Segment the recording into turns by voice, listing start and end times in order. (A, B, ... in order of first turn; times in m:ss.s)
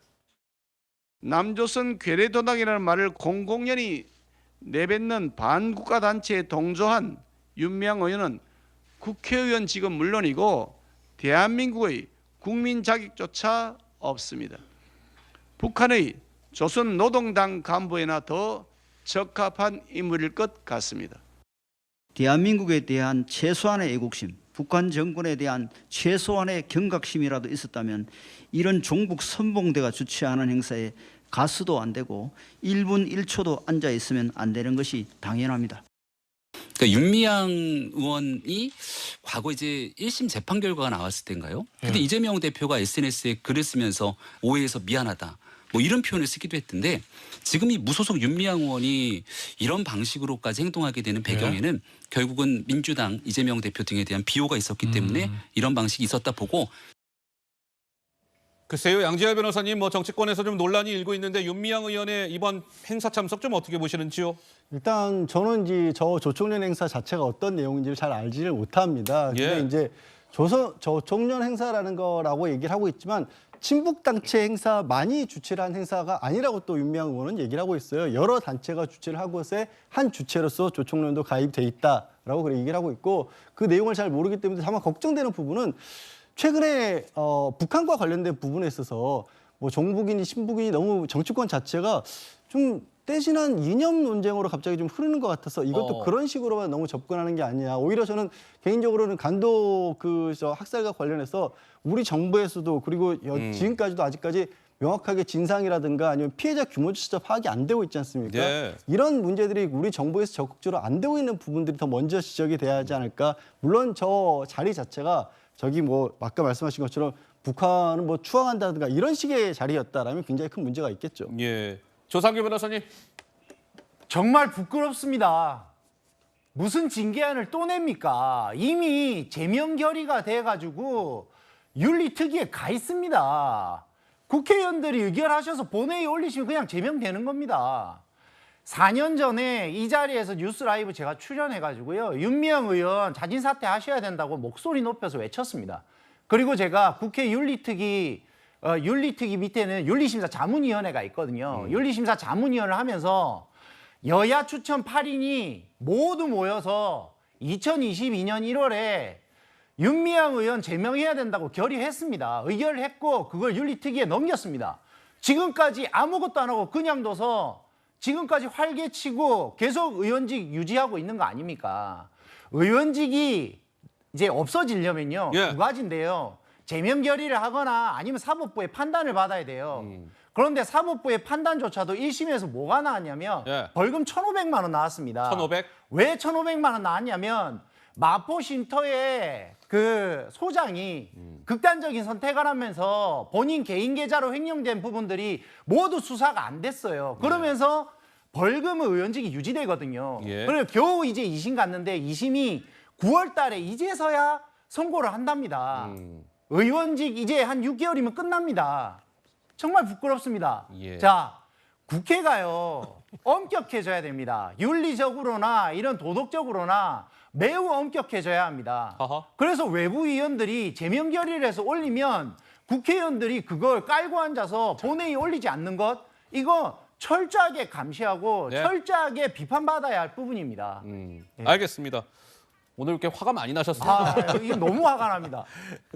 0:01.2-0:04.1 A
0:04.6-0:08.4 A
0:09.0-0:14.6 A
0:15.6-0:21.2 A
0:22.1-0:35.8 B
0:36.8-0:56.7 C
0:58.7-1:04.4 D
1:04.7-1:25.8 E
1:09.3-1:09.7 D
1:26.3-2:01.3 E
1:35.7-1:36.1 D
1:43.3-1:43.7 D
1:48.2-1:48.8 D
2:01.3-2:02.8 D
2:04.1-2:05.7 F
2:06.5-2:18.0 F
2:18.6-2:33.5 F
2:31.5-2:31.8 D
2:34.0-2:39.2 F
2:39.8-3:26.0 F
2:55.3-2:55.6 D
2:59.7-3:00.1 D
3:03.4-3:03.7 D
3:05.2-3:05.7 D
3:17.2-3:17.5 D
3:20.2-3:20.6 D
3:25.7-3:26.3 D
3:26.5-3:29.0 F
3:29.6-3:50.8 F
3:30.7-3:31.1 D
3:39.0-3:39.3 D
3:50.8-3:52.0 D
3:52.8-3:54.6 D
3:53.8-3:55.5 F